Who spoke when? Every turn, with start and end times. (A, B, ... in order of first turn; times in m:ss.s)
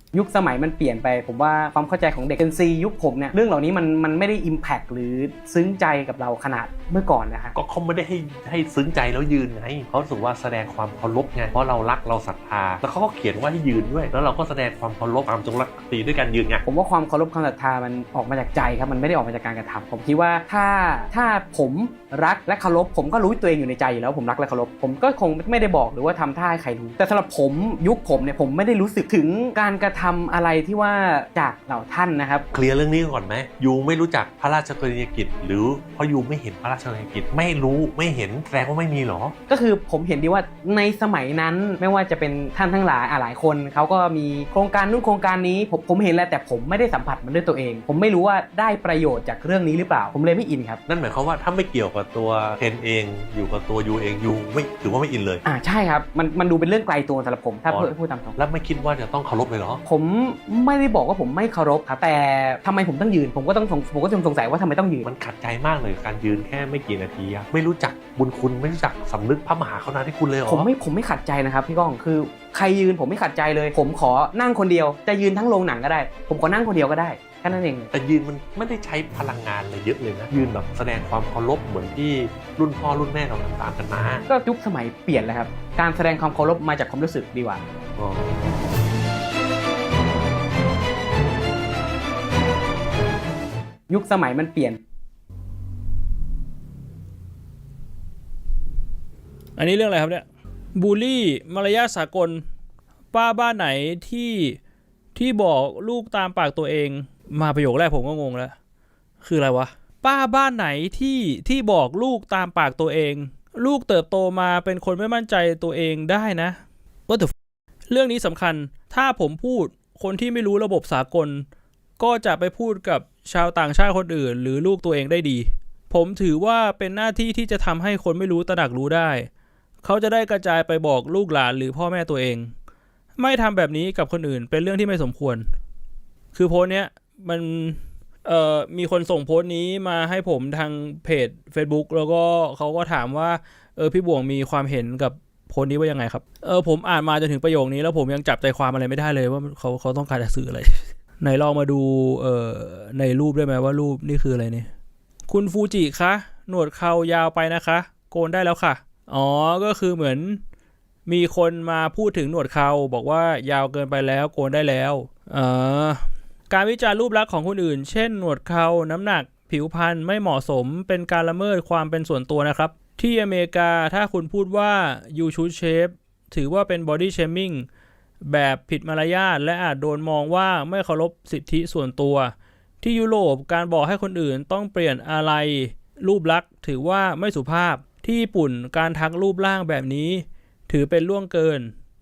0:00.1-0:07.6 A
0:07.6-0:16.6 B
0:16.6-0:32.4 A
0:32.5-0:39.3 B
0:39.5-0:50.8 A
0:50.8-0:55.4 B
0:55.4-0:58.3 A
0:57.7-0:59.8 B
0:59.8-1:05.0 A
1:05.0-1:10.7 B
1:10.5-1:17.9 A
1:17.9-1:24.2 B
1:24.3-1:27.6 A
1:28.0-1:28.5 B
1:33.9-1:34.8 A
1:39.6-1:42.4 C
1:43.1-1:44.6 C
1:45.1-1:48.5 C
1:49.2-1:57.3 C
1:57.9-2:01.4 C
2:02.0-2:09.3 C
2:09.8-2:12.5 C
2:13.2-2:15.5 C
2:16.3-2:34.7 C
2:35.3-2:40.4 C
2:41.0-2:57.6 C
2:58.2-3:11.7 C